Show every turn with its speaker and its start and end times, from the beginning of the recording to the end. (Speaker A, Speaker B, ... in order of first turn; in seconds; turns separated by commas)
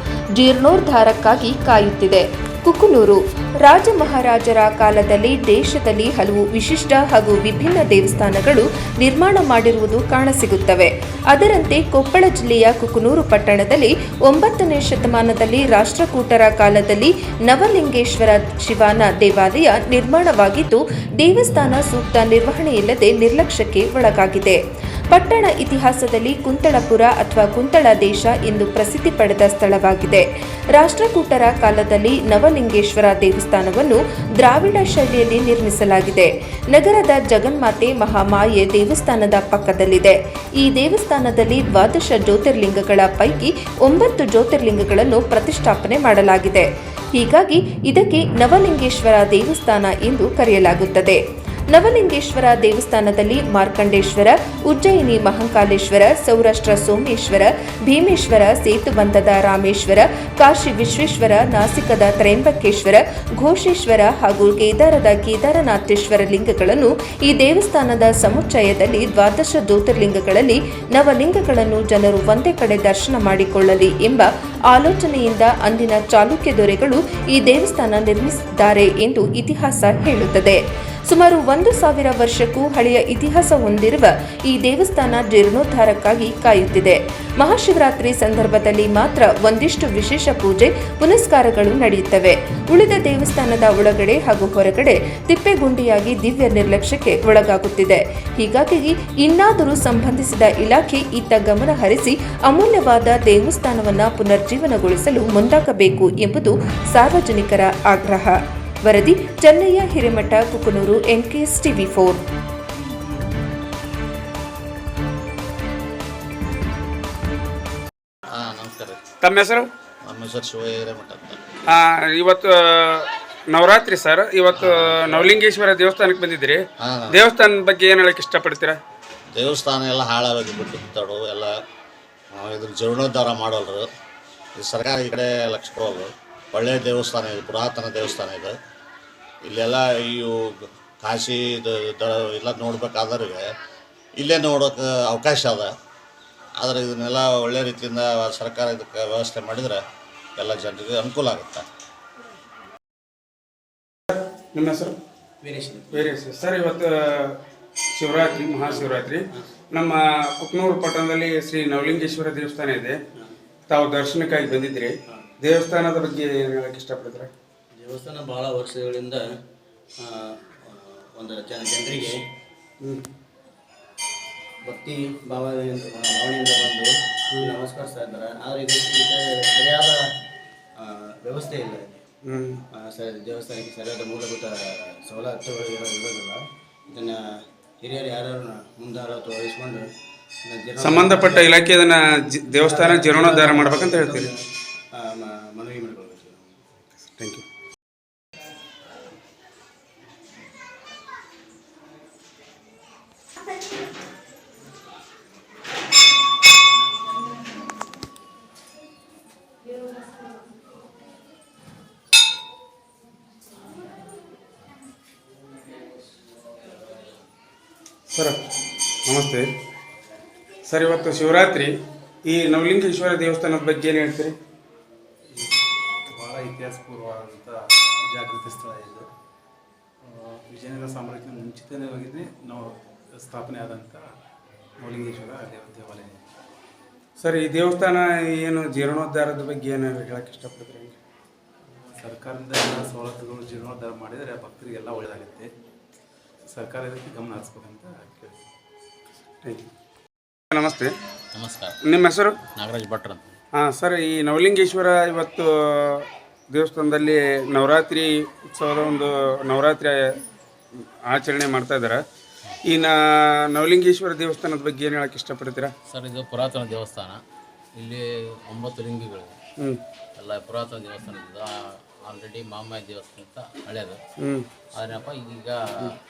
Speaker A: 0.4-24.6, Speaker A: 25.1-51.2, Speaker A: 51.7-112.2, Speaker B: 118.3-119.0, Speaker C: 119.2-119.7, Speaker B: 120.0-121.4, Speaker C: 121.7-128.8, Speaker B: 124.5-125.3, Speaker B: 126.8-127.2, Speaker B: 129.3-131.5, Speaker B: 132.3-133.9, Speaker B: 134.6-138.6, Speaker B: 139.4-143.5, Speaker B: 144.2-145.7, Speaker B: 146.6-149.8, Speaker B: 150.4-151.7, Speaker C: 154.1-155.0, Speaker D: 155.4-156.1, Speaker C: 155.9-157.4, Speaker C: 158.0-159.2, Speaker D: 158.7-159.5, Speaker C: 159.7-163.0, Speaker C: 163.7-167.3, Speaker D: 167.7-169.2, Speaker D: 170.0-172.2, Speaker C: 172.8-173.1, Speaker D: 174.6-180.0, Speaker D: 180.8-182.0, Speaker C: 182.2-182.6, Speaker D: 182.7-187.2, Speaker D: 187.8-189.9, Speaker D: 190.4-191.6, Speaker C: 190.8-194.3, Speaker D: 192.5-194.4, Speaker D: 194.9-196.6, Speaker C: 197.2-197.4, Speaker C: 218.1-218.4, Speaker C: 219.1-219.5, Speaker C: 220.7-224.3, Speaker E: 225.3-225.6, Speaker E: 226.1-229.1, Speaker E: 230.0-234.0, Speaker E: 234.8-236.2, Speaker C: 237.2-241.0, Speaker E: 241.7-245.5, Speaker E: 246.5-248.3, Speaker C: 250.5-250.9, Speaker F: 251.3-251.8, Speaker C: 251.8-252.4, Speaker F: 252.6-253.4, Speaker C: 253.6-260.2, Speaker C: 261.1-262.0, Speaker C: 262.7-265.7, Speaker F: 265.9-267.2, Speaker F: 267.8-269.4, Speaker F: 270.2-271.5, Speaker F: 272.1-274.0, Speaker F: 274.8-275.9